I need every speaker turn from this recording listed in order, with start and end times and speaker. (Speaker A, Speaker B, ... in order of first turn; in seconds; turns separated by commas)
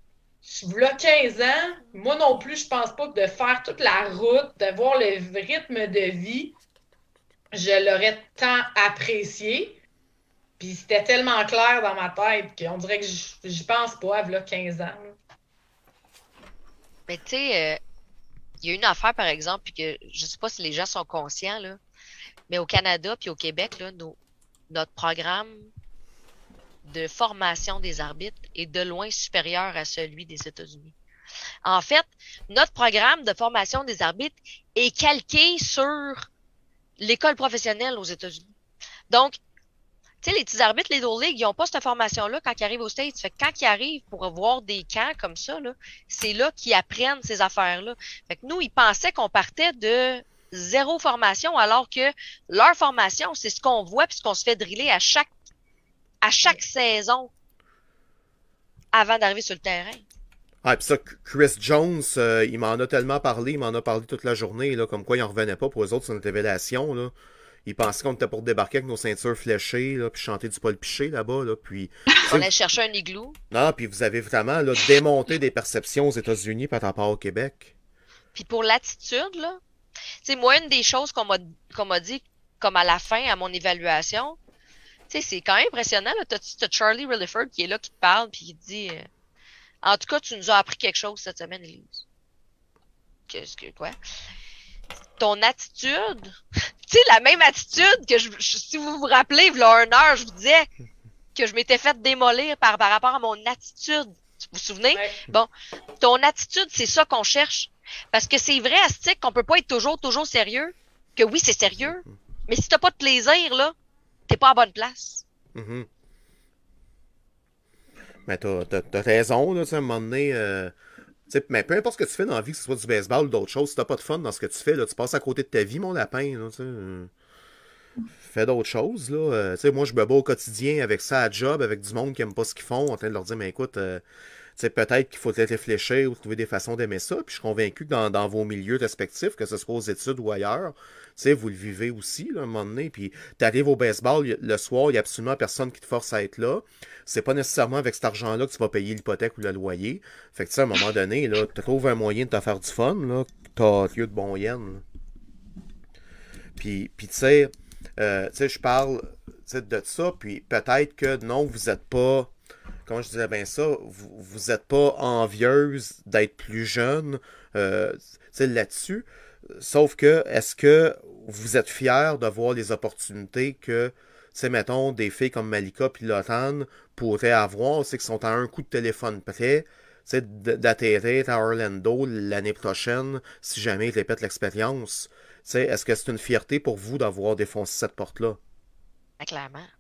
Speaker A: 0.4-6.6, Speaker A: 7.5-9.8, Speaker A: 10.6-15.1, Speaker B: 17.1-17.8, Speaker B: 18.6-21.8, Speaker B: 22.5-24.2, Speaker B: 24.7-25.7, Speaker B: 26.8-30.9, Speaker B: 31.6-36.3, Speaker B: 37.0-38.5, Speaker B: 39.1-39.4, Speaker B: 40.2-55.3, Speaker B: 56.2-57.3, Speaker B: 58.9-60.0, Speaker C: 60.6-67.1, Speaker C: 67.7-72.5, Speaker B: 72.2-73.4, Speaker C: 73.5-77.7, Speaker B: 78.3-79.6, Speaker B: 80.2-84.4, Speaker B: 85.1-89.1, Speaker B: 89.8-92.0, Speaker B: 93.3-94.0, Speaker B: 95.2-96.3, Speaker B: 96.9-100.7, Speaker B: 101.3-105.5, Speaker A: 104.9-105.2, Speaker B: 106.0-113.7, Speaker B: 114.3-115.2, Speaker C: 115.5-115.9, Speaker C: 118.3-120.7, Speaker C: 121.3-127.1, Speaker C: 128.2-134.0, Speaker C: 134.6-154.8, Speaker C: 156.6-162.3, Speaker C: 162.9-188.4, Speaker B: 189.2-189.7